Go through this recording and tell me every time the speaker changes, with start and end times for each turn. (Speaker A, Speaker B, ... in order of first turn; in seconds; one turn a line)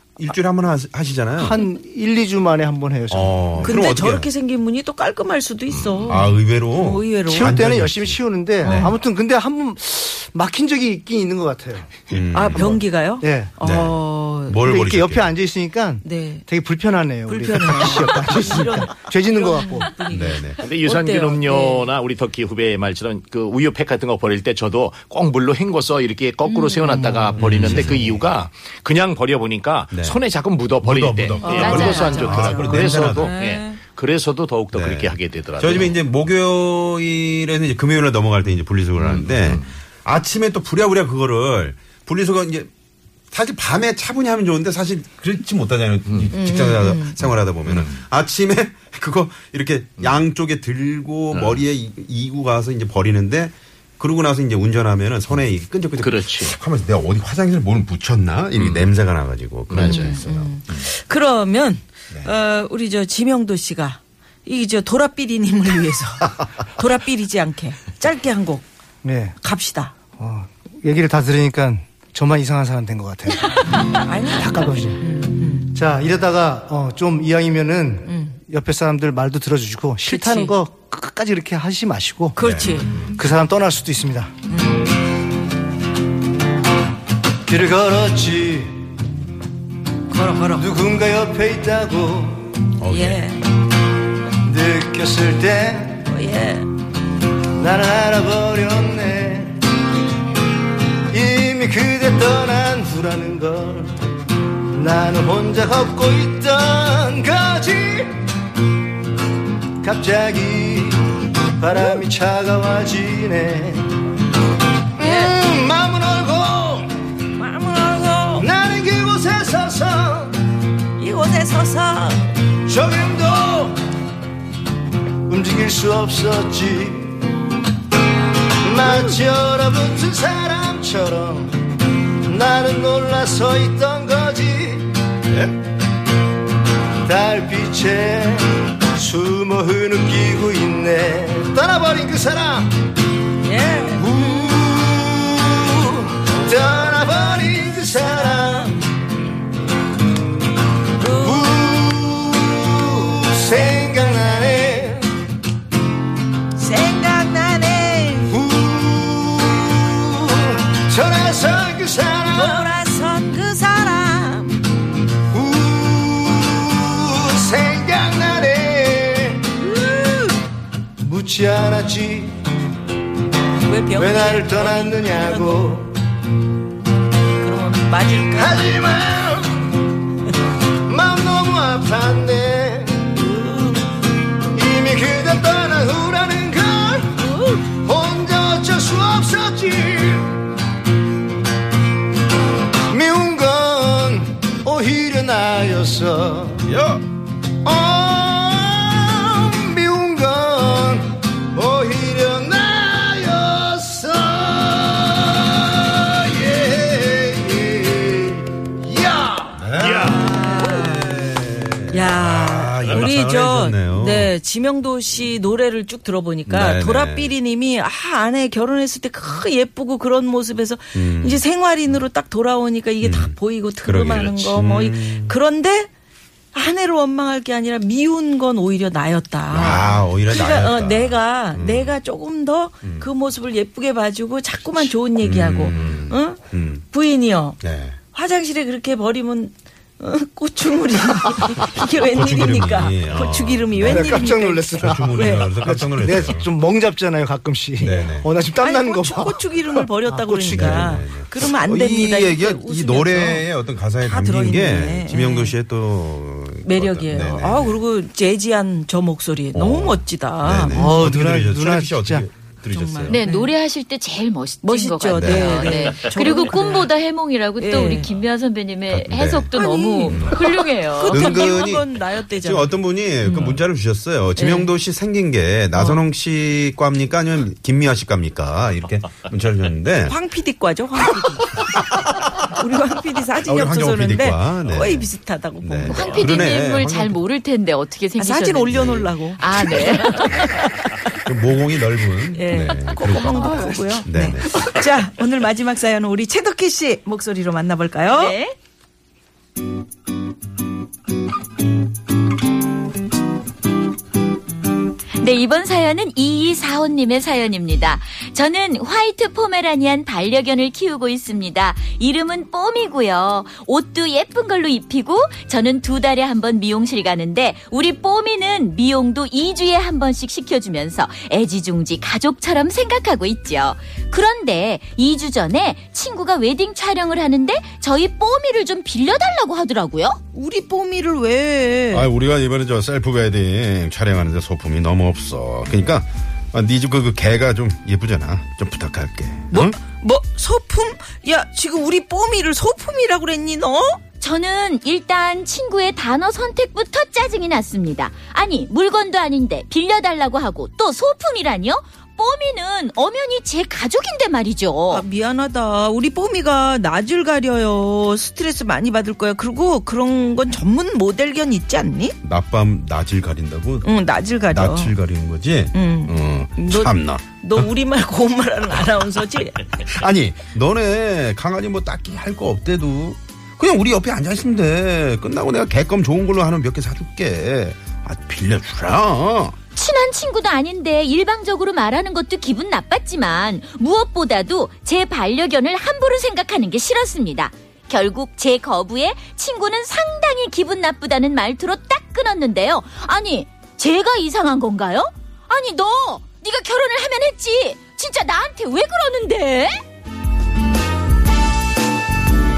Speaker A: 0.2-1.6
Speaker B: 1.4-3.8
Speaker A: 3.1-4.3
Speaker C: 3.6-7.6
Speaker D: 5.7-6.2
Speaker A: 6.0-8.9
Speaker B: 7.3-11.9
Speaker C: 8.6-8.9
Speaker A: 12.1-12.8
Speaker C: 12.3-14.7
Speaker B: 13.2-13.5
Speaker A: 13.6-15.3
Speaker B: 14.6-19.9
Speaker C: 16.0-16.5
Speaker C: 17.3-21.9
Speaker A: 20.1-20.6
Speaker D: 20.6-36.0
Speaker E: 26.4-27.1
Speaker B: 26.9-28.0
Speaker A: 27.4-28.3
Speaker A: 29.9-30.2
Speaker A: 30.8-33.3
Speaker E: 31.4-32.2
Speaker C: 31.4-33.8
Speaker A: 34.7-42.7
Speaker D: 39.0-39.7
Speaker A: 43.3-60.9
Speaker C: 46.3-47.3
Speaker D: 47.7-48.0
Speaker D: 51.3-51.6
Speaker D: 56.0-56.5
Speaker D: 58.5-58.9
Speaker D: 59.7-60.2
Speaker C: 59.8-68.7
Speaker B: 69.0-69.4
Speaker C: 69.4-70.0
Speaker B: 70.2-75.0
Speaker C: 73.7-75.8
Speaker B: 75.7-82.4
Speaker C: 78.1-78.4
Speaker C: 80.1-80.5
Speaker C: 82.3-82.9
Speaker A: 82.4-83.2
Speaker B: 83.1-84.3
Speaker C: 84.5-84.8
Speaker B: 87.5-88.9
Speaker C: 90.1-90.7
Speaker B: 90.6-92.6
Speaker A: 92.8-93.3
Speaker C: 92.8-93.5
Speaker B: 94.4-96.1
Speaker C: 96.1-96.7
Speaker B: 97.5-99.6
Speaker B: 101.1-103.9
Speaker B: 104.7-108.2
Speaker B: 109.8-113.9
Speaker C: 111.8-112.0
Speaker B: 115.0-116.9
Speaker C: 115.0-115.3
Speaker C: 117.3-118.5
Speaker B: 118.4-120.4
Speaker C: 121.0-122.3
Speaker B: 122.7-123.8
Speaker B: 125.3-127.2
Speaker B: 128.6-131.6
Speaker B: 132.2-134.9
Speaker A: 135.3-135.5
Speaker B: 137.1-142.7
Speaker C: 143.4-144.6
Speaker B: 143.9-148.8
Speaker C: 147.2-148.7
Speaker C: 151.0-151.6
Speaker B: 151.0-155.1
Speaker C: 156.6-158.4
Speaker B: 158.3-162.7
Speaker C: 162.3-164.6
Speaker B: 165.3-169.5
Speaker C: 169.6-170.4
Speaker B: 171.0-172.4
Speaker C: 173.6-175.8
Speaker B: 174.0-175.9
Speaker C: 177.4-178.8
Speaker B: 178.3-179.7
Speaker B: 180.9-183.2
Speaker C: 183.2-183.8
Speaker B: 184.5-190.4
Speaker C: 187.2-187.7
Speaker B: 192.9-196.7
Speaker A: 196.6-197.0
Speaker B: 197.6-209.6
Speaker A: 209.5-214.3
Speaker D: 209.8-210.3
Speaker C: 210.0-211.1
Speaker C: 211.9-225.9
Speaker A: 216.5-217.3
Speaker A: 220.9-221.4
Speaker A: 223.0-225.4
Speaker D: 224.0-224.3
Speaker C: 226.5-237.6
Speaker A: 229.5-232.0
Speaker A: 232.8-233.1
Speaker A: 234.8-236.8
Speaker A: 237.6-238.0
Speaker C: 238.1-246.3
Speaker A: 242.1-246.5
Speaker B: 243.8-251.0
Speaker A: 247.8-248.3
Speaker C: 248.6-255.6
Speaker A: 250.5-257.8
Speaker C: 256.6-261.1
Speaker A: 259.5-263.2
Speaker B: 260.7-262.3
Speaker C: 262.7-263.5
Speaker E: 263.1-271.4
Speaker C: 264.6-266.9
Speaker A: 265.1-265.9
Speaker C: 267.6-268.1
Speaker A: 268.9-269.5
Speaker C: 269.5-273.6
Speaker A: 270.1-280.2
Speaker C: 274.4-274.7
Speaker C: 275.7-276.0
Speaker C: 280.1-281.8
Speaker C: 282.4-286.4
Speaker A: 283.4-287.2
Speaker E: 285.9-290.6
Speaker C: 288.2-291.2
Speaker A: 288.7-289.1
Speaker A: 291.2-294.7
Speaker C: 292.3-298.4
Speaker E: 298.1-298.6
Speaker E: 305.2-330.2
Speaker C: 330.3-332.1
Speaker A: 331.9-339.8
Speaker C: 339.5-344.0
Speaker E: 344.2-355.1
Speaker C: 354.9-362.2
Speaker A: 362.2-363.9
Speaker C: 363.8-364.9
Speaker A: 364.5-367.7
Speaker C: 365.7-369.7
Speaker A: 369.7-379.6
Speaker E: 379.8-399.8